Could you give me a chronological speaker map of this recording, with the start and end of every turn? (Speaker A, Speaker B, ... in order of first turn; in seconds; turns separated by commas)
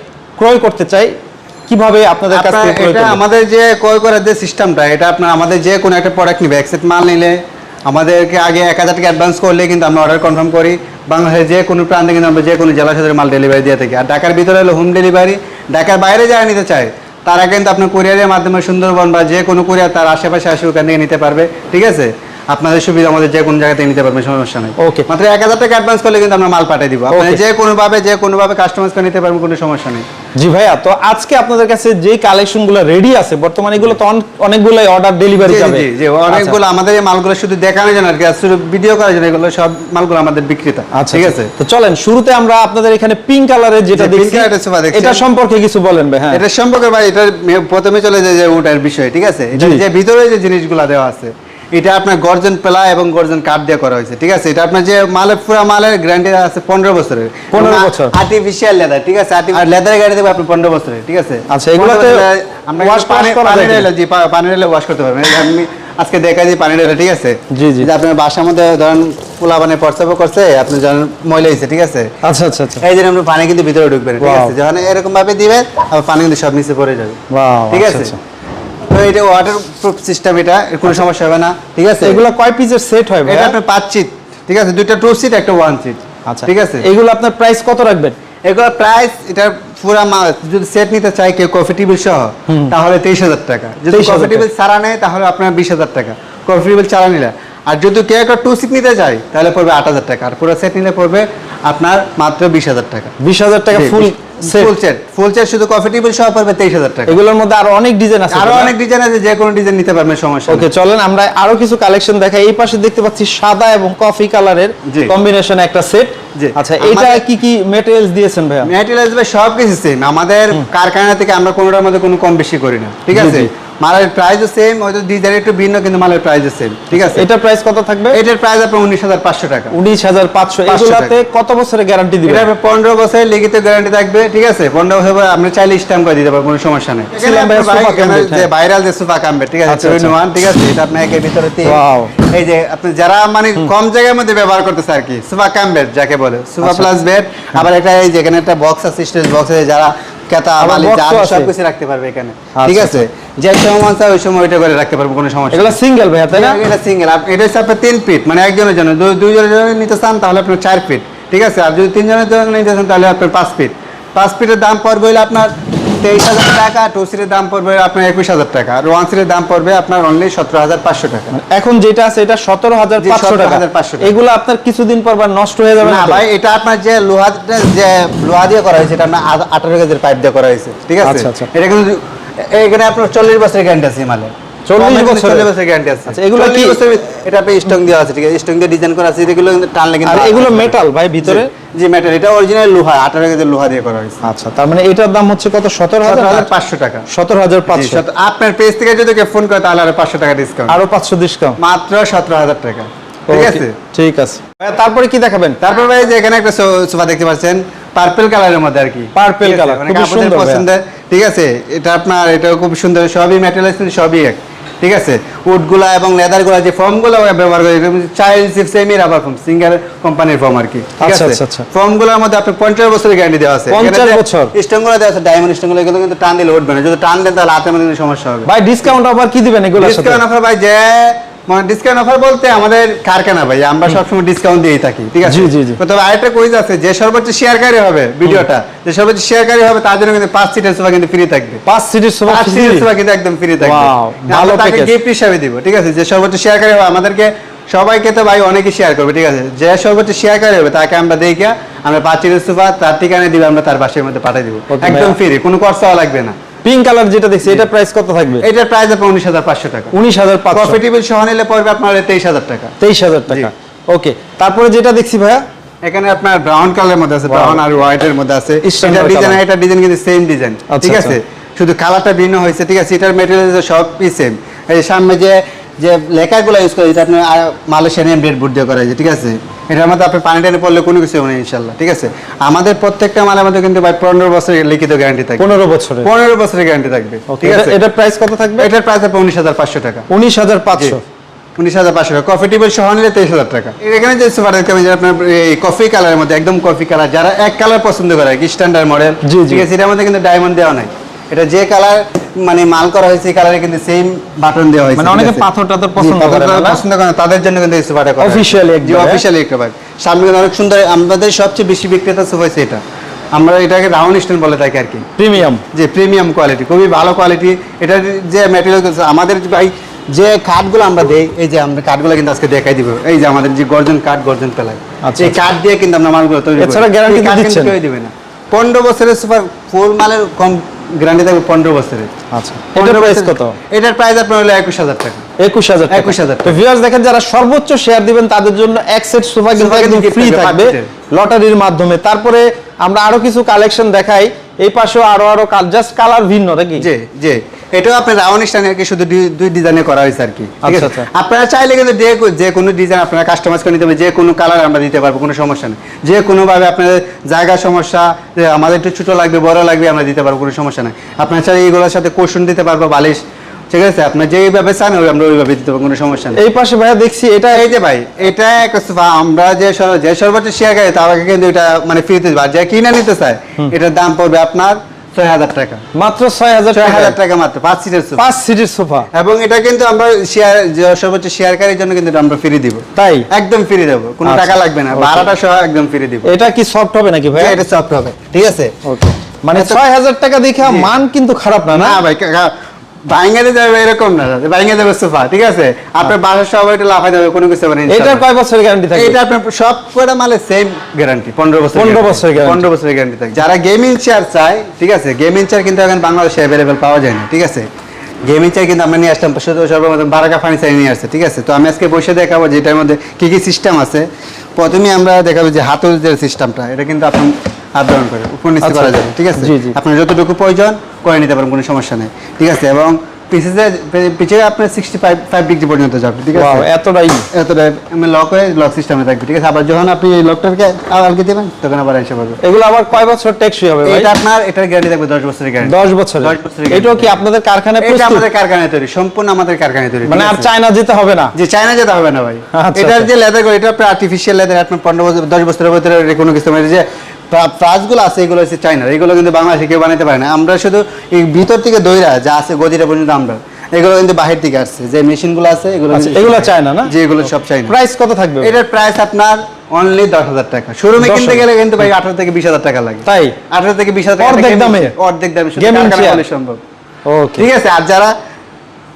Speaker A: 0.4-1.1, Speaker A: 1.7-3.2, Speaker B: 2.3-30.0, Speaker A: 24.8-25.1, Speaker A: 27.1-27.4, Speaker A: 30.4-36.6, Speaker B: 35.4-41.5, Speaker A: 40.9-46.4, Speaker B: 43.9-45.2, Speaker B: 46.3-72.1, Speaker A: 49.5-49.8, Speaker A: 57.5-58.1, Speaker A: 61.5-62.2, Speaker A: 62.8-63.9, Speaker A: 67.5-67.9, Speaker A: 72.2-72.8, Speaker B: 72.8-77.2, Speaker A: 74.2-74.5, Speaker A: 77.3-78.2, Speaker B: 77.7-78.1, Speaker B: 78.9-82.2, Speaker A: 82.0-83.5, Speaker B: 83.2-86.8, Speaker A: 86.3-88.2, Speaker B: 88.5-103.1, Speaker A: 92.5-92.7, Speaker A: 93.9-94.5, Speaker A: 103.2-104.7, Speaker B: 103.7-107.1, Speaker A: 107.1-108.7, Speaker B: 108.3-110.7, Speaker A: 110.5-118.7, Speaker B: 114.8-115.1, Speaker B: 116.3-117.2, Speaker B: 118.6-127.2, Speaker A: 123.1-123.5, Speaker A: 126.9-128.2, Speaker B: 128.1-129.8, Speaker A: 129.7-132.4, Speaker B: 130.7-131.2, Speaker B: 132.2-155.8, Speaker A: 137.2-138.5, Speaker A: 139.7-140.1, Speaker A: 141.6-142.1, Speaker A: 150.6-151.5, Speaker A: 152.6-153.0, Speaker A: 155.5-156.6, Speaker B: 156.3-171.3, Speaker A: 171.3-176.2, Speaker B: 173.0-174.1, Speaker B: 175.8-194.3, Speaker A: 181.0-181.5, Speaker A: 184.7-185.5, Speaker A: 186.1-186.8, Speaker A: 190.0-191.5, Speaker A: 194.2-196.5, Speaker B: 196.0-197.1, Speaker A: 197.1-198.0, Speaker B: 197.7-200.8, Speaker A: 200.7-201.6, Speaker B: 201.6-203.8, Speaker A: 203.3-205.6, Speaker B: 205.6-228.5, Speaker A: 209.1-210.7, Speaker A: 221.0-221.6, Speaker A: 223.7-224.5, Speaker A: 228.5-230.2, Speaker B: 229.8-241.6, Speaker A: 235.2-235.8, Speaker A: 241.7-242.9, Speaker B: 242.2-256.3, Speaker A: 243.6-244.9, Speaker A: 254.7-255.2, Speaker A: 256.6-258.4, Speaker B: 258.4-259.9, Speaker A: 259.9-260.8, Speaker B: 260.5-262.8, Speaker A: 262.8-265.4, Speaker B: 265.8-285.5, Speaker A: 267.3-267.6, Speaker A: 268.6-269.4, Speaker A: 270.7-271.1, Speaker A: 285.4-286.1, Speaker B: 286.0-287.8, Speaker A: 287.3-288.7, Speaker B: 288.6-290.1, Speaker A: 290.1-291.0, Speaker B: 291.6-305.4, Speaker A: 299.2-299.6, Speaker A: 305.0-306.8, Speaker B: 306.0-312.8, Speaker A: 308.2-309.2, Speaker B: 313.3-315.0, Speaker A: 315.2-315.6, Speaker B: 315.7-332.1, Speaker A: 325.0-325.4, Speaker A: 326.6-327.7, Speaker A: 332.3-333.6, Speaker B: 332.7-335.2, Speaker A: 335.4-346.9, Speaker B: 335.9-336.6, Speaker B: 339.5-340.9, Speaker B: 346.8-363.2, Speaker A: 350.6-351.1, Speaker B: 363.7-366.4, Speaker A: 366.3-367.7, Speaker B: 367.5-375.8, Speaker A: 375.9-377.1, Speaker B: 376.7-378.2, Speaker A: 378.2-379.1, Speaker B: 379.1-386.3, Speaker A: 382.9-383.3, Speaker A: 384.2-385.3, Speaker A: 386.2-387.6, Speaker B: 387.3-388.7, Speaker A: 388.8-392.0, Speaker B: 389.5-389.8, Speaker B: 390.6-390.9, Speaker B: 391.7-392.5, Speaker B: 393.1-398.2, Speaker A: 397.9-399.2, Speaker B: 398.9-407.6, Speaker A: 401.7-402.7, Speaker B: 408.2-414.1, Speaker B: 414.6-426.7, Speaker A: 418.6-419.8, Speaker A: 426.3-427.2, Speaker B: 427.3-432.4, Speaker A: 432.4-434.1, Speaker B: 433.8-437.2, Speaker A: 435.6-438.2, Speaker B: 437.8-440.5, Speaker A: 440.1-441.3, Speaker B: 441.3-457.7, Speaker A: 442.5-443.1, Speaker A: 455.9-456.9, Speaker A: 457.7-458.6, Speaker B: 458.4-466.6, Speaker A: 461.0-461.5, Speaker A: 463.1-463.4, Speaker A: 464.2-464.9, Speaker A: 465.6-466.2, Speaker A: 467.1-467.5, Speaker B: 467.4-468.1